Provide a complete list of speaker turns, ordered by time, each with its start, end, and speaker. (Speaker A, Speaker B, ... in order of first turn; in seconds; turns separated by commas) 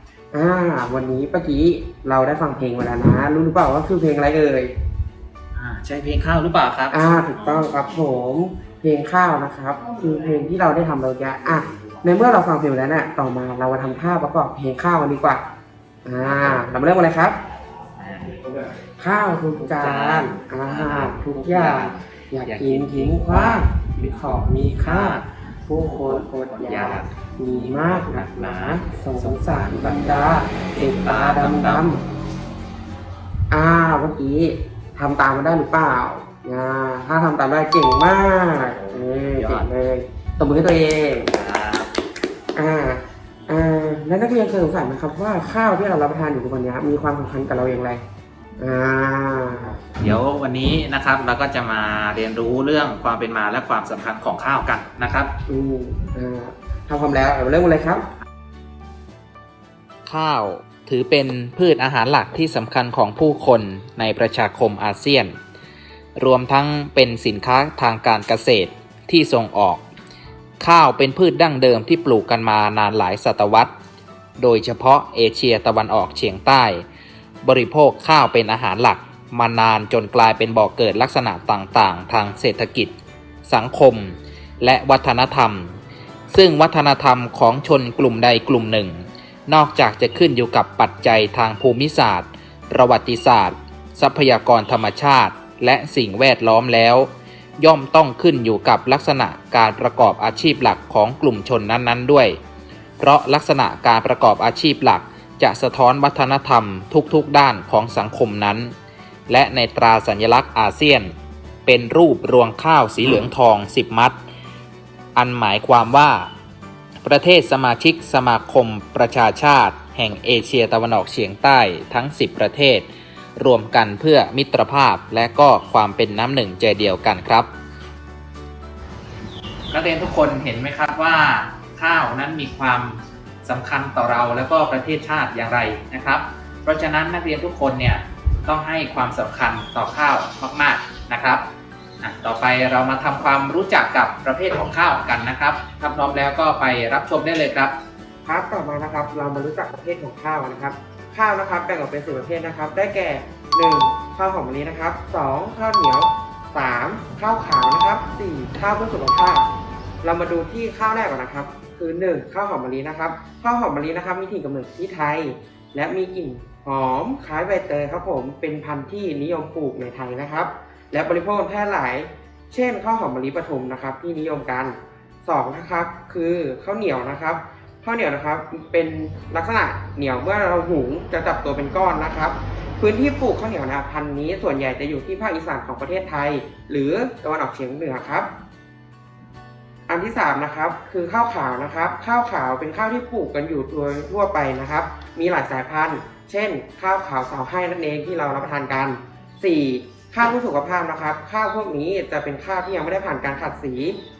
Speaker A: 0.3-4.7, Speaker B: 5.5-7.0, Speaker A: 6.9-15.4, Speaker A: 16.1-17.4, Speaker A: 19.0-32.0, Speaker B: 19.8-23.9, Speaker B: 24.8-25.3, Speaker B: 26.0-27.1, Speaker B: 27.8-31.9, Speaker A: 33.5-41.3, Speaker B: 39.3-39.7, Speaker B: 41.3-41.9, Speaker A: 42.5-48.0, Speaker A: 48.6-49.8, Speaker B: 50.0-55.3, Speaker A: 55.5-58.0, Speaker B: 60.1-65.4, Speaker B: 66.2-69.9, Speaker B: 70.6-73.7, Speaker B: 74.4-76.8, Speaker B: 77.4-83.0, Speaker B: 83.5-85.8, Speaker B: 86.3-97.1, Speaker B: 97.6-102.4, Speaker B: 103.0-108.7, Speaker B: 109.3-111.1, Speaker B: 111.7-114.2, Speaker B: 115.2-116.3, Speaker B: 117.0-127.5, Speaker B: 129.7-141.4, Speaker B: 142.0-147.8, Speaker A: 148.2-159.5, Speaker A: 160.0-188.3, Speaker A: 189.9-204.0